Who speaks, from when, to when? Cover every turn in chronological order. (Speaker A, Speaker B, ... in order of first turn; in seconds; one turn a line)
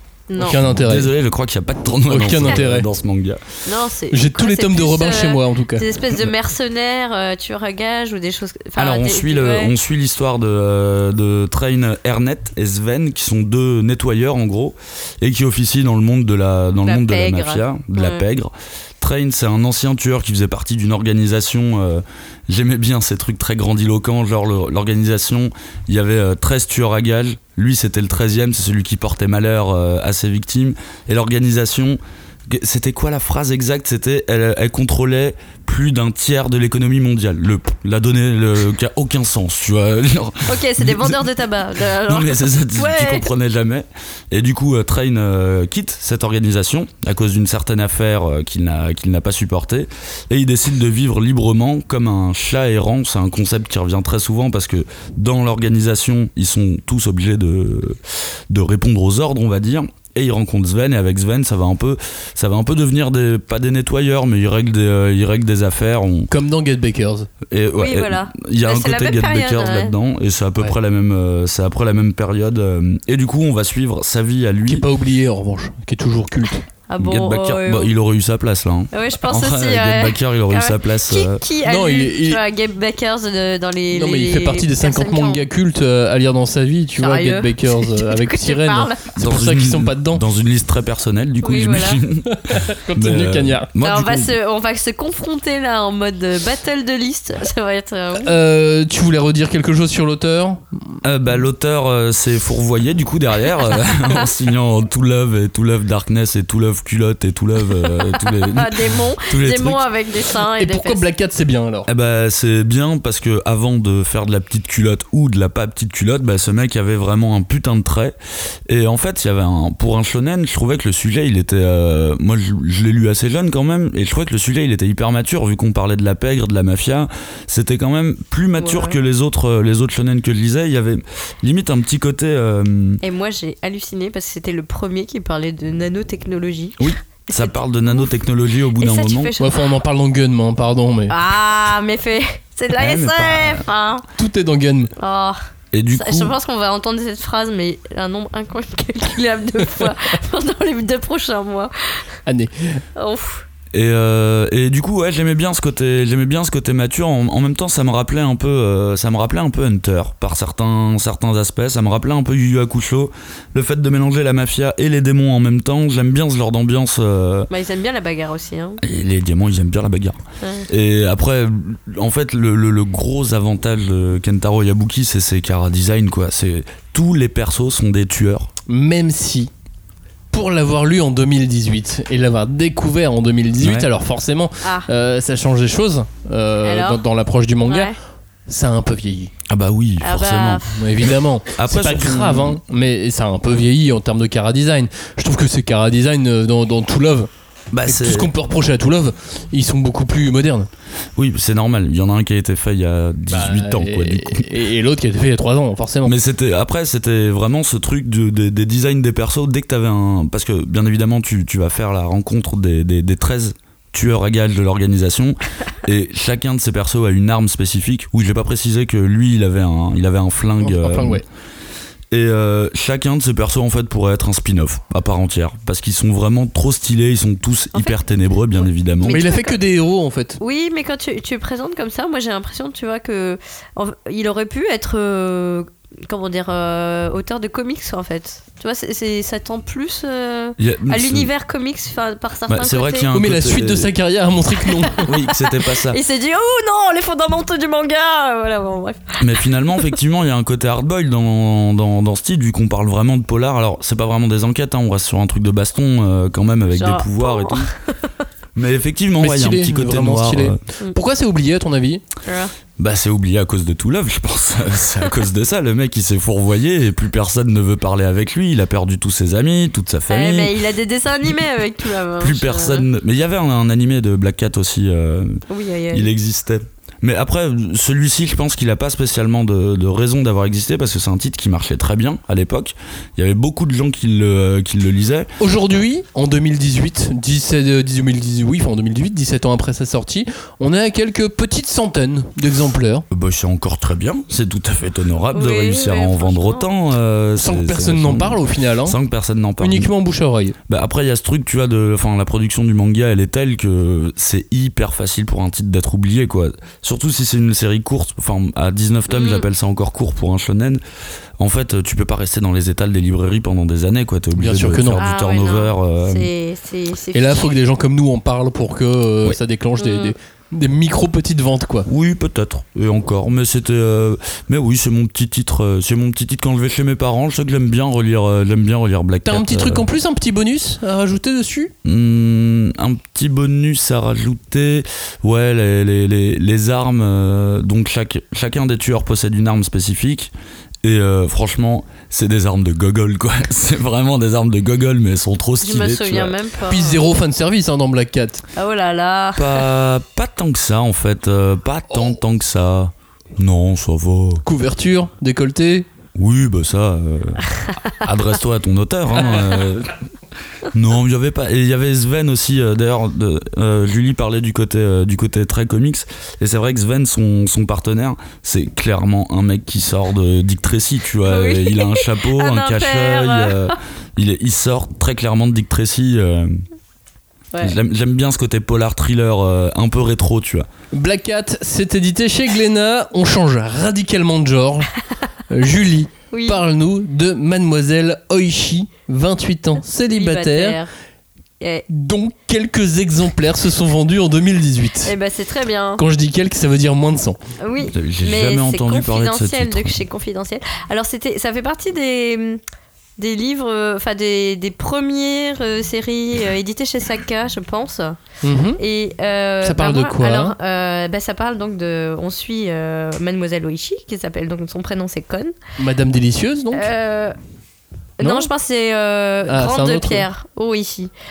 Speaker A: 0.3-0.6
Speaker B: 0.4-1.1
Speaker C: 0.5-3.4
Speaker B: 2.1-2.9
Speaker A: 3.7-9.7
Speaker B: 4.1-5.8
Speaker C: 8.8-41.2
Speaker A: 16.9-18.2
Speaker A: 40.5-43.3
Speaker C: 42.1-66.3
Speaker B: 66.3-67.3
Speaker C: 67.5-74.8
Speaker A: 67.8-69.9
Speaker B: 74.7-76.6
Speaker A: 76.9-77.9
Speaker C: 77.0-81.4
Speaker A: 78.9-85.5
Speaker B: 81.7-82.4
Speaker B: 83.9-90.2
Speaker A: 87.0-89.1
Speaker C: 89.2-94.3
Speaker A: 91.4-92.0
Speaker B: 92.4-93.7
Speaker A: 93.8-98.3
Speaker B: 98.2-100.6
Speaker C: 101.0-109.8
Speaker A: 108.1-111.0
Speaker B: 110.6-111.9
Speaker C: 111.9-118.2
Speaker C: 118.7-133.0
Speaker A: 128.6-129.0
Speaker A: 133.0-138.1
Speaker C: 136.8-139.3
Speaker A: 138.8-139.7
Speaker B: 139.4-141.2
Speaker A: 141.1-144.1
Speaker C: 142.8-143.7
Speaker B: 144.2-144.9
Speaker A: 145.0-145.4
Speaker C: 145.7-146.3
Speaker A: 145.9-152.0
Speaker B: 152.3-152.8
Speaker A: 153.0-153.5
Speaker C: 153.7-167.5
Speaker A: 167.5-168.8
Speaker C: 168.8-178.5
Speaker A: 170.4-170.7
Speaker B: 178.7-179.5
Speaker B: 180.3-187.9
Speaker C: 183.6-183.9
Speaker A: 184.6-184.9
Speaker A: 186.7-187.0
Speaker A: 187.7-188.0
Speaker B: 188.5-189.3
Speaker C: 189.5-192.6
Speaker A: 190.0-190.8
Speaker B: 190.8-197.3
Speaker C: 197.7-198.3
Speaker B: 197.9-200.7
Speaker C: 201.2-204.5
Speaker B: 203.3-206.2
Speaker C: 206.1-221.2
Speaker B: 220.6-221.2
Speaker C: 222.1-229.2
Speaker A: 229.0-229.6
Speaker B: 229.1-230.4
Speaker A: 230.4-243.1
Speaker C: 240.6-241.3
Speaker C: 242.5-243.9
Speaker B: 243.1-245.1
Speaker A: 244.8-249.3
Speaker C: 245.1-246.0
Speaker C: 249.2-257.7
Speaker A: 256.7-258.1
Speaker C: 258.6-260.6
Speaker B: 259.2-262.0
Speaker A: 262.3-262.5
Speaker C: 262.8-270.5
Speaker A: 270.1-272.9
Speaker C: 272.2-285.3
Speaker A: 275.5-276.1
Speaker B: 285.4-293.1
Speaker C: 293.1-299.9
Speaker A: 295.3-296.7
Speaker B: 297.4-299.0
Speaker B: 299.6-300.6
Speaker C: 300.7-310.8
Speaker A: 309.1-309.5
Speaker C: 311.4-316.3
Speaker B: 314.4-315.0
Speaker A: 315.0-317.6
Speaker B: 317.1-321.9
Speaker A: 319.8-320.1
Speaker C: 321.9-329.9
Speaker B: 329.2-331.7
Speaker C: 331.8-340.3
Speaker C: 340.8-346.4
Speaker A: 345.6-347.1
Speaker B: 346.7-348.4
Speaker A: 348.6-349.6
Speaker C: 349.4-354.4
Speaker B: 354.4-355.9
Speaker C: 356.2-360.0
Speaker C: 360.6-376.6
Speaker A: 371.3-373.7
Speaker C: 377.6-380.7
Speaker B: 380.9-384.9
Speaker B: 385.5-390.8
Speaker A: 386.3-386.6
Speaker A: 390.1-390.9
Speaker A: 391.6-391.9
Speaker B: 391.9-395.1
Speaker A: 395.1-396.0
Speaker B: 396.0-397.4
Speaker A: 397.6-402.6
Speaker C: 397.9-399.9
Speaker A: 403.2-408.2
Speaker B: 408.4-408.8
Speaker A: 408.8-415.6
Speaker B: 409.6-410.6
Speaker B: 415.8-416.9
Speaker A: 416.7-417.4
Speaker A: 418.2-421.1
Speaker B: 418.2-418.5
Speaker B: 419.5-420.2